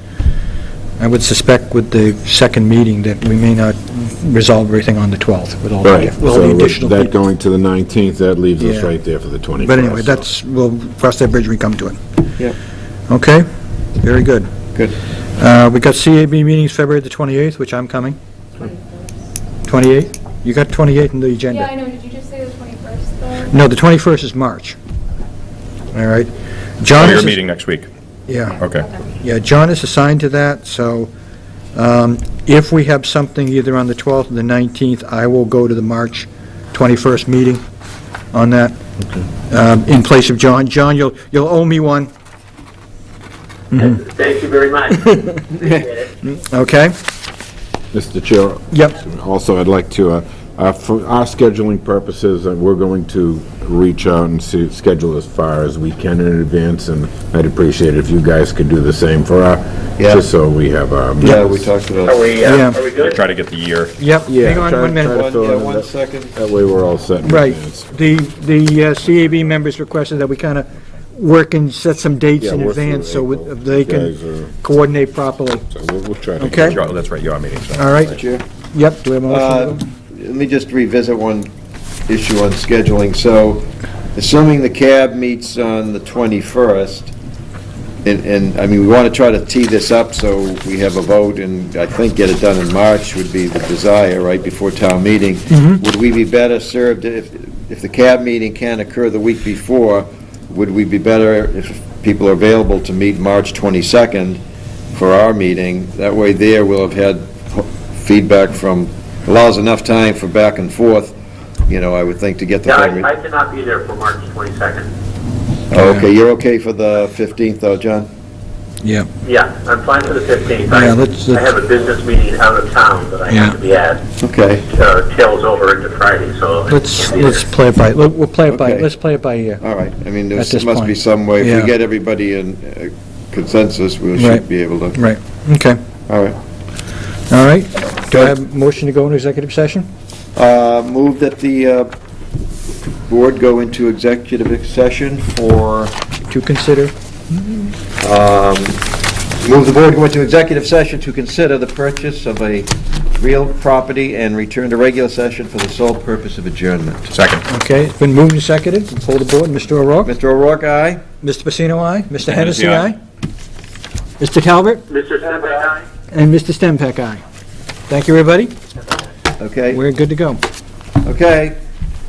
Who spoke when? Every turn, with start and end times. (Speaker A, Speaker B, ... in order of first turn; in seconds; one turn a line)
Speaker A: 1.0-7.1
Speaker B: 5.8-10.3
Speaker A: 8.6-8.9
Speaker A: 9.6-12.0
Speaker A: 13.1-13.4
Speaker A: 14.0-14.5
Speaker A: 15.4-18.2
Speaker C: 18.6-19.1
Speaker A: 19.6-21.7
Speaker C: 21.5-23.6
Speaker A: 23.5-24.8
Speaker A: 25.9-27.4
Speaker D: 26.9-27.9
Speaker A: 28.3-31.1
Speaker D: 28.5-28.9
Speaker A: 31.7-37.6
Speaker A: 38.3-38.8
Speaker A: 39.5-42.1
Speaker E: 43.7-46.1
Speaker A: 46.2-46.9
Speaker B: 47.9-61.7
Speaker F: 60.0-60.3
Speaker F: 61.2-62.2
Speaker E: 62.0-63.2
Speaker A: 62.4-62.8
Speaker D: 62.9-63.9
Speaker A: 64.0-65.2
Speaker B: 64.3-67.9
Speaker F: 64.9-66.3
Speaker A: 67.2-75.7
Speaker B: 72.4-74.5
Speaker B: 75.6-76.8
Speaker A: 76.4-76.8
Speaker D: 76.6-78.2
Speaker A: 77.7-78.2
Speaker F: 78.1-78.4
Speaker A: 78.7-79.8
Speaker F: 79.2-81.5
Speaker F: 82.1-87.1
Speaker F: 88.0-104.4
Speaker A: 95.5-95.8
Speaker F: 104.9-111.1
Speaker F: 111.7-113.1
Speaker E: 112.6-114.9
Speaker F: 115.7-118.1
Speaker A: 115.7-116.0
Speaker A: 118.8-119.1
Speaker E: 119.2-124.0
Speaker A: 120.7-121.5
Speaker A: 123.3-123.6
Speaker F: 124.2-124.7
Speaker E: 124.7-127.4
Speaker A: 126.7-129.6
Speaker F: 128.5-128.9
Speaker F: 129.6-135.0
Speaker A: 130.3-131.7
Speaker A: 134.2-134.4
Speaker A: 134.9-135.8
Speaker F: 136.1-136.4
Speaker A: 137.3-139.9
Speaker F: 140.3-141.9
Speaker F: 143.1-145.9
Speaker A: 146.3-146.9
Speaker F: 148.0-148.8
Speaker F: 149.4-157.1
Speaker D: 157.1-157.4
Speaker A: 157.5-160.1
Speaker F: 160.0-161.0
Speaker A: 161.2-163.0
Speaker D: 162.3-162.9
Speaker A: 164.2-164.8
Speaker E: 164.9-165.8
Speaker A: 166.1-167.2
Speaker A: 167.9-168.5
Speaker F: 169.4-169.8
Speaker A: 169.7-170.4
Speaker F: 171.0-171.6